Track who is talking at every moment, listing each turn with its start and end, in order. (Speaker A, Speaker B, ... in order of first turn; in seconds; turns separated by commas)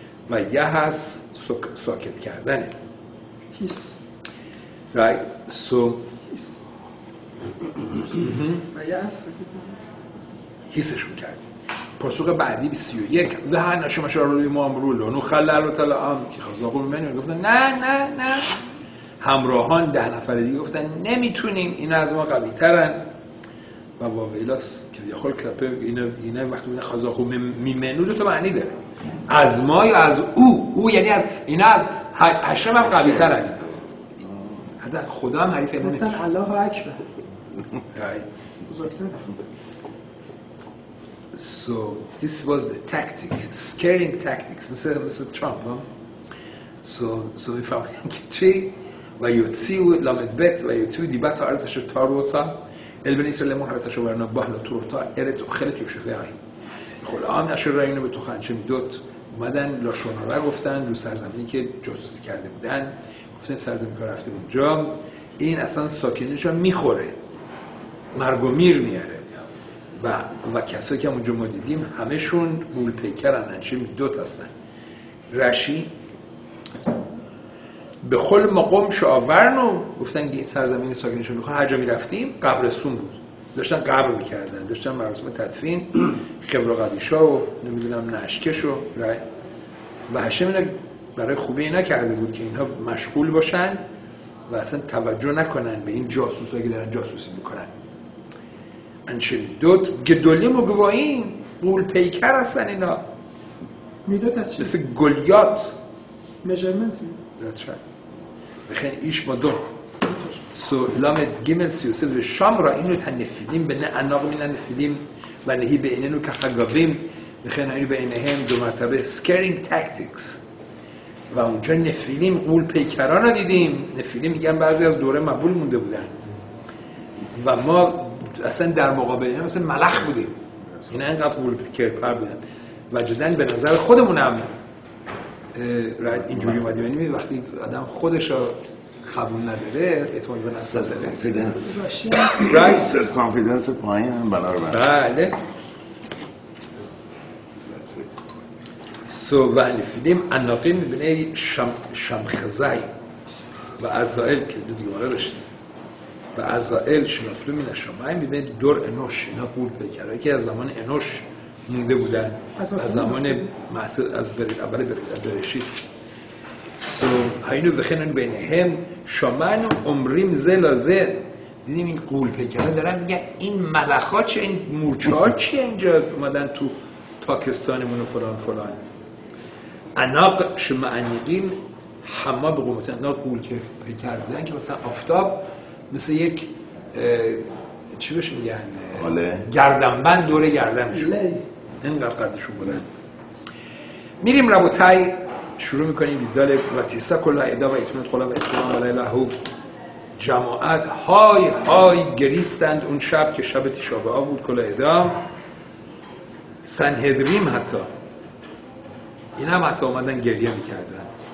Speaker A: 0.3-2.8, Speaker B: 3.5-4.0, Speaker A: 4.9-6.0, Speaker A: 8.1-8.6, Speaker B: 8.2-10.4, Speaker A: 10.7-11.4, Speaker A: 12.0-18.5, Speaker A: 19.2-23.0, Speaker A: 24.0-28.7, Speaker A: 29.3-33.8, Speaker A: 34.8-36.2, Speaker B: 35.8-37.0, Speaker A: 37.9-38.2, Speaker B: 38.7-39.3, Speaker A: 41.3-45.8, Speaker A: 46.8-56.4, Speaker A: 57.0-67.2, Speaker A: 68.1-69.2, Speaker A: 69.9-74.5, Speaker A: 75.3-75.9, Speaker A: 78.0-89.2, Speaker A: 90.1-93.8, Speaker A: 94.5-97.7, Speaker A: 99.1-103.0, Speaker B: 104.0-104.7, Speaker A: 104.6-105.8, Speaker B: 106.4-107.2, Speaker A: 107.4-107.8, Speaker A: 108.7-109.6, Speaker B: 110.0-110.4, Speaker A: 110.5-120.4, Speaker A: 121.3-126.2, Speaker A: 127.3-130.3, Speaker A: 130.9-134.5, Speaker A: 135.5-141.7, Speaker C: 140.7-144.8, Speaker B: 141.3-142.7, Speaker A: 142.4-142.9, Speaker A: 144.7-145.4, Speaker A: 147.7-148.0, Speaker A: 149.0-152.9, Speaker A: 153.8-155.4, Speaker A: 156.3-165.8, Speaker B: 162.6-163.5, Speaker A: 166.8-178.8, Speaker A: 179.9-191.2, Speaker C: 188.9-189.4, Speaker B: 190.9-191.4, Speaker A: 191.8-192.9, Speaker A: 194.2-199.3, Speaker A: 200.2-205.2, Speaker A: 206.6-207.9, Speaker A: 209.4-211.1